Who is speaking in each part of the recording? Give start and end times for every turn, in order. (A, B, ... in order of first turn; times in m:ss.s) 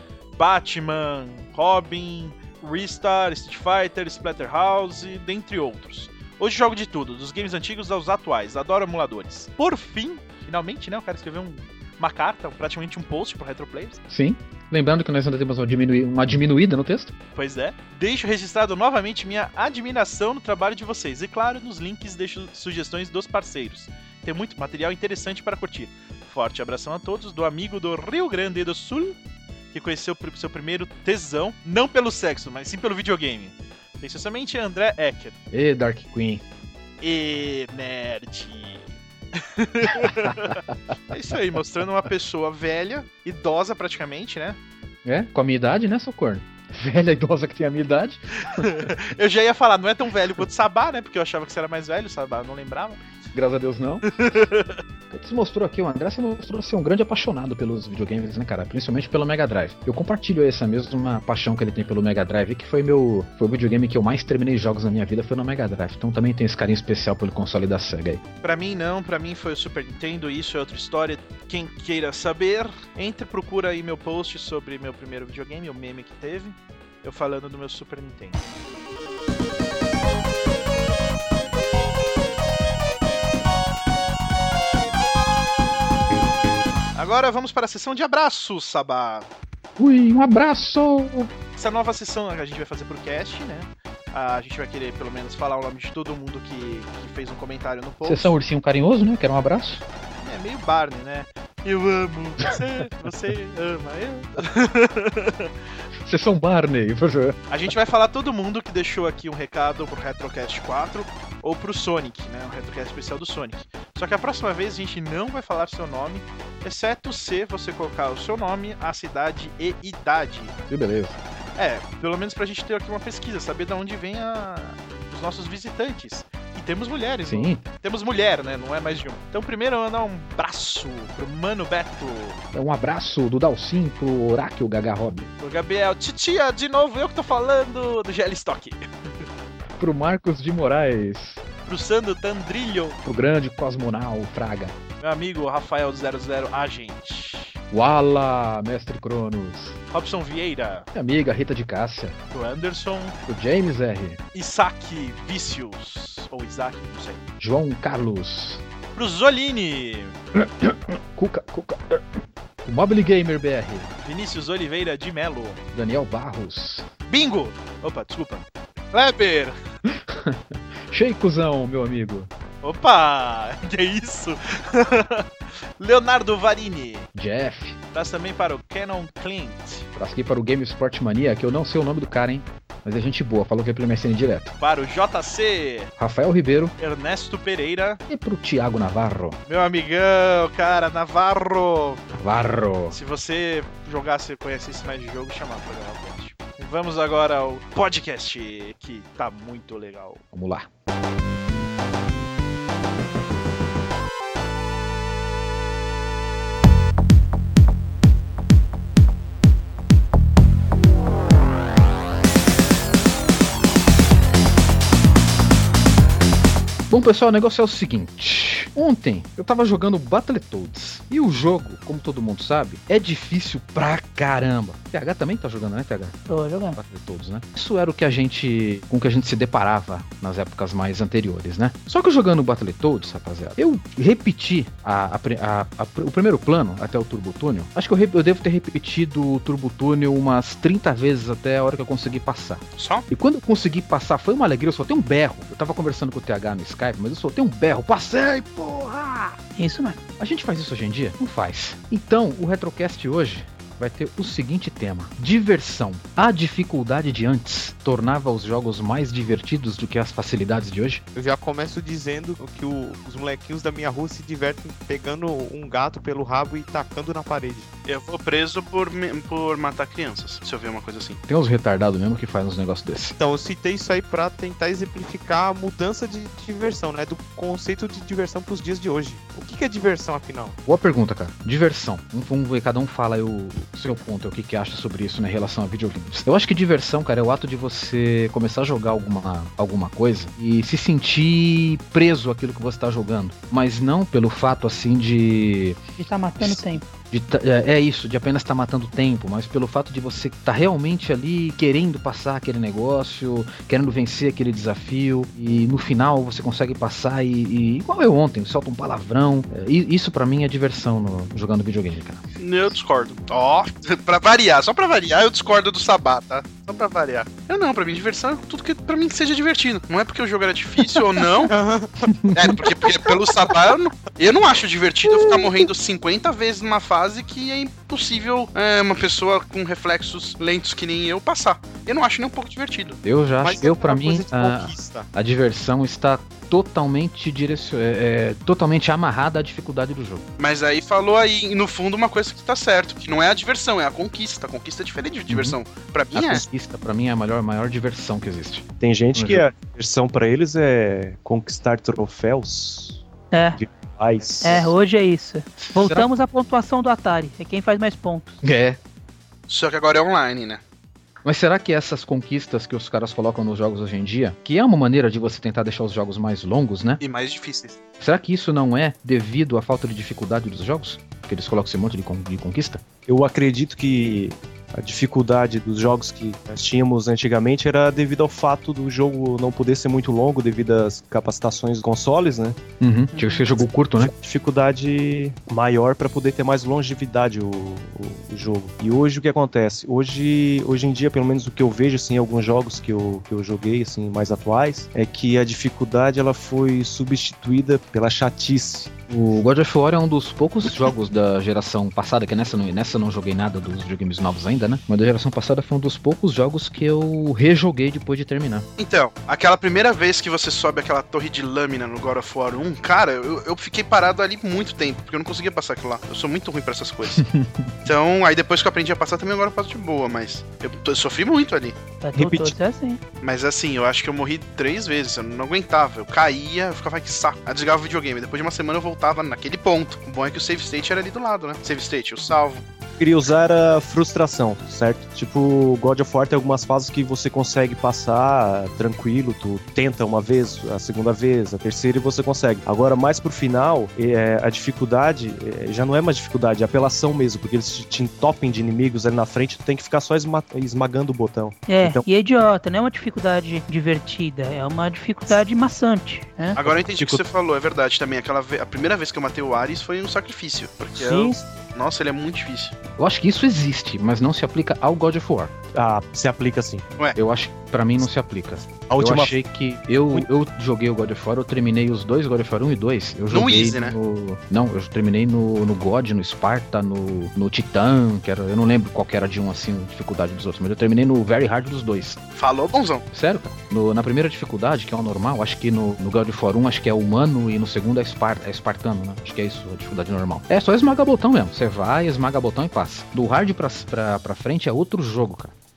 0:00.4-0:14.0 A
0:14.1-0:17.1 B
0:17.4-0:29.2 A
0:29.7-0:35.4 A
0:35.5-0:36.4 B
0:37.0-0:44.6 A
0:40.1-0:40.6 B
0:45.0-0:48.9 B
0:48.5-0:53.0 A
0:53.3-0:54.1 B
0:54.1-0:54.8 A
0:55.1-1:08.2 B
1:08.4-1:18.4 A
1:27.0-1:29.3 A
1:29.8-1:31.3 B
1:31.6-1:38.3 A
1:38.0-1:39.8 B
1:40.2-1:45.5 A
1:46.0-1:47.4 B
1:47.5-2:00.6 A
2:00.7-2:01.2 B
2:01.6-2:12.4 A
2:07.2-2:07.6 B
2:12.5-2:15.3 B
2:15.4-2:19.3 A
2:19.8-2:21.4 B
2:21.6-2:23.0 A
2:23.0-2:24.8 B
2:25.0-2:27.6 A
2:27.7-2:29.8 B
2:29.9-2:30.9 A
2:30.9-2:32.2 B
2:32.3-2:33.2 A
2:33.3-2:34.2 B
2:34.4-2:37.2 A
2:37.4-2:38.6 B
2:39.0-2:40.2 A
2:40.4-2:43.9 B
2:44.0-2:45.6 A
2:45.7-2:46.9 B
2:47.1-2:49.6 A
2:49.8-2:52.3 B
2:52.6-2:57.1 A
2:57.1-2:57.8 B
2:57.9-2:59.9 A
3:00.0-3:04.5 B
3:04.6-3:05.9 A
3:06.0-3:06.7 B
3:06.8-3:08.0 A
3:08.1-3:09.4 B
3:09.5-3:20.2 A
3:12.2-3:13.0 B
3:20.3-3:20.7 B
3:36.9-3:46.2 B
3:46.3-3:46.8 C
3:46.8-4:09.4 B
4:02.8-4:03.1 D
4:09.6-4:10.0 C
4:10.2-4:21.0 B
4:21.2-4:27.7 E
4:27.9-4:31.2 D
4:31.3-4:33.2 B
4:33.2-4:40.6 E
4:40.6-4:55.8 B
4:56.0-4:56.8 C
4:56.4-5:12.2 B
5:12.4-5:21.5 D
5:21.5-5:22.9 E
5:22.1-5:22.6 B
5:22.3-5:33.0 D
5:33.0-5:40.2 B
5:33.4-5:35.1 E
5:40.4-5:46.4 D
5:45.3-5:45.6 B
5:46.1-5:49.5 B
5:48.8-5:53.0 F
5:53.3-5:53.6 C
5:53.6-5:54.7 F
5:54.4-5:58.4 C
5:55.6-5:56.1 B
5:58.4-5:58.8 B
5:59.5-6:00.6 D
6:01.2-6:07.0 B
6:07.0-6:07.8 D
6:08.0-6:12.8 B
6:13.1-6:22.6 F
6:22.8-6:24.1 B
6:23.1-6:23.4 C
6:24.0-6:38.9 F
6:39.1-6:48.7 B
6:48.8-6:57.2 D
6:57.2-6:57.7 B
6:57.9-7:01.8 D
7:02.0-7:03.0 C
7:02.2-7:02.6 F
7:03.2-7:12.6 D
7:13.0-7:32.1 F
7:31.7-7:36.6 C
7:36.6-7:42.7 D
7:36.6-7:37.2 F
7:41.0-7:41.5 F
7:43.0-7:45.5 B
7:45.7-7:46.8 F
7:47.2-8:02.2 B
7:48.9-7:49.4 F
7:53.3-7:53.9 D
8:02.4-8:03.0 D
8:03.1-8:15.5 B